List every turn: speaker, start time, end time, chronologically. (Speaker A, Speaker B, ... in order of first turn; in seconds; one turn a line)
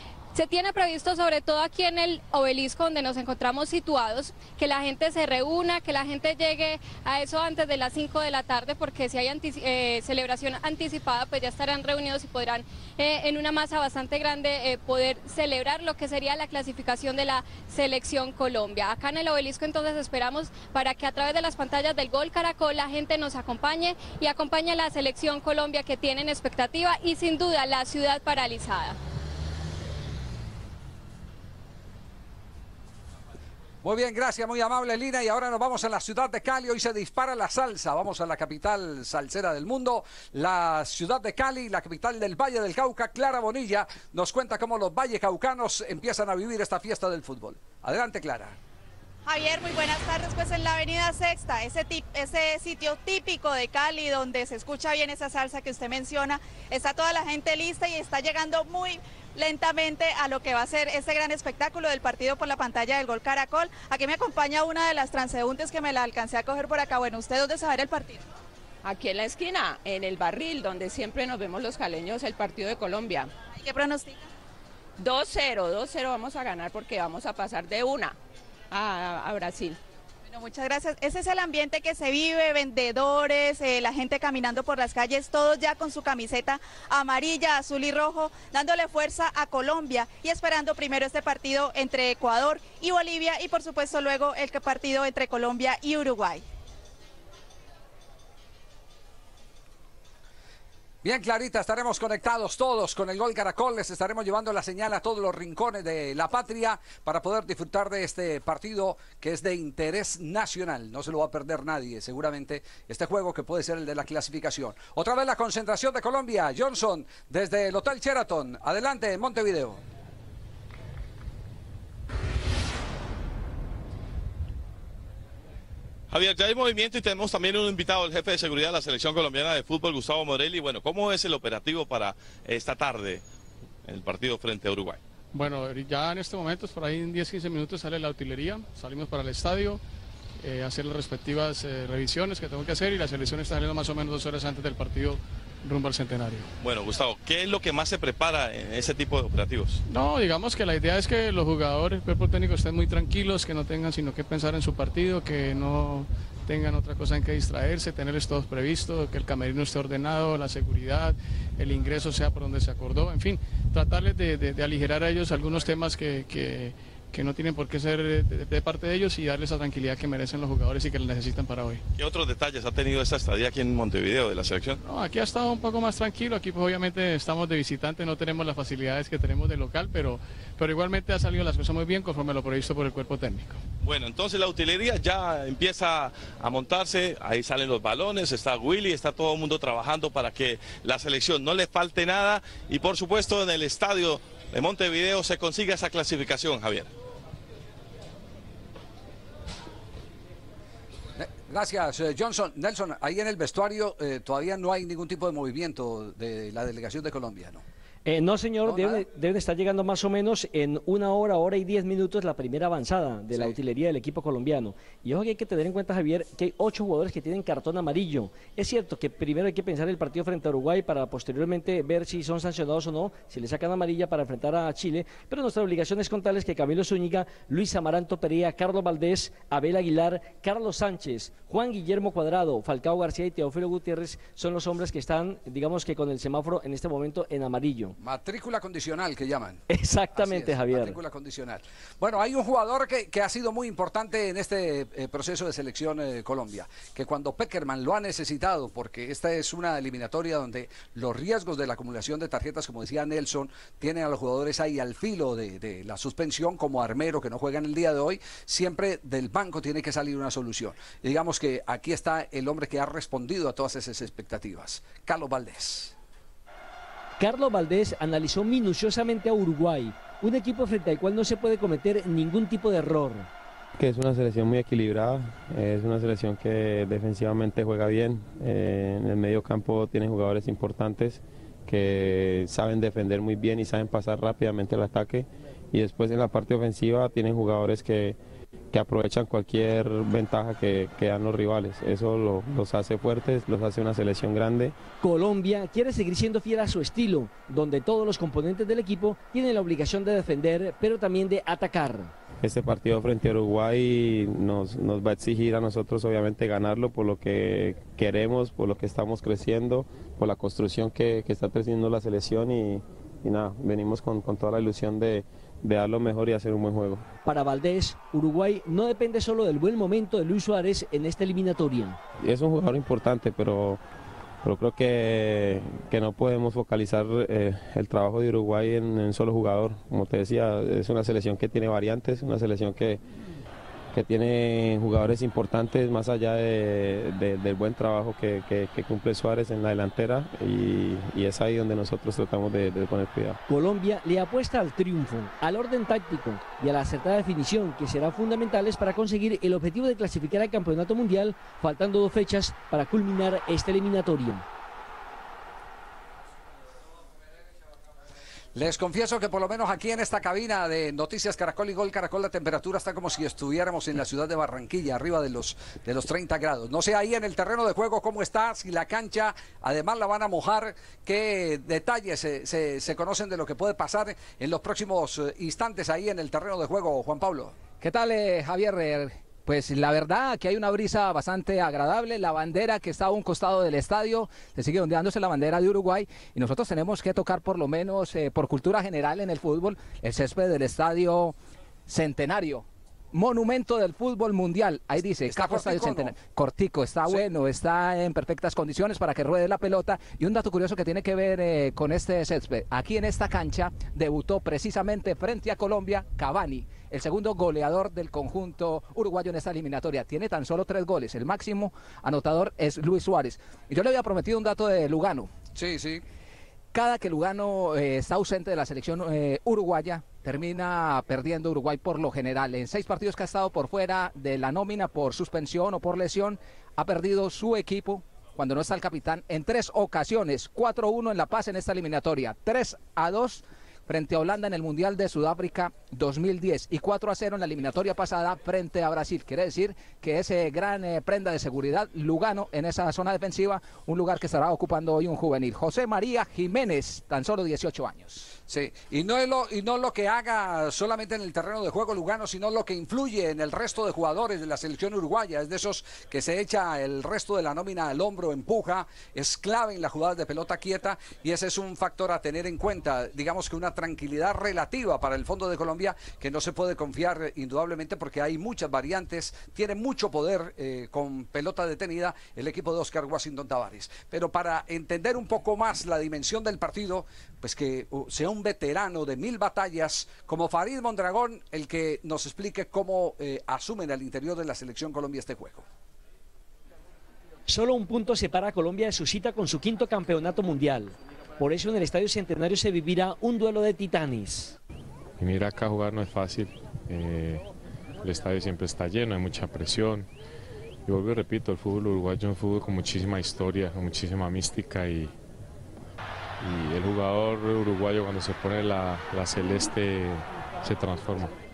Speaker A: 0.3-29.0
Speaker B: 33.8-48.6
Speaker C: 49.3-68.3
Speaker D: 68.8-73.3
Speaker C: 73.5-74.3
Speaker D: 75.0-78.2
Speaker D: 78.7-79.8
Speaker C: 80.3-96.4
Speaker B: 101.0-119.8
Speaker E: 126.1-133.2
Speaker E: 133.8-135.0
Speaker F: 135.3-139.8
Speaker F: 140.4-146.5
Speaker E: 146.6-149.8
Speaker F: 149.9-171.8
Speaker E: 172.0-174.8
Speaker F: 174.8-183.6
Speaker E: 183.8-196.9
Speaker B: 201.2-207.6
Speaker G: 208.1-237.9
Speaker B: 208.6-209.0
Speaker B: 238.0-239.6
Speaker G: 239.7-241.0
Speaker B: 240.2-265.9
Speaker G: 267.2-273.3
Speaker H: 273.8-288.2
Speaker H: 288.7-294.8
Speaker G: 295.0-302.1
Speaker H: 302.4-317.0
Speaker G: 317.2-322.0
Speaker H: 322.2-323.8
Speaker H: 324.4-333.0
Speaker H: 333.9-343.4
Speaker G: 343.5-354.4
Speaker B: 358.6-377.6
Speaker I: 377.8-391.4
Speaker I: 391.9-415.3
Speaker B: 395.3-396.2
Speaker B: 415.6-416.0
Speaker I: 416.7-448.3
Speaker B: 448.4-485.6
Speaker G: 487.5-494.6
Speaker J: 495.2-497.5
Speaker J: 498.0-500.1
Speaker J: 500.9-505.1
Speaker J: 506.4-511.3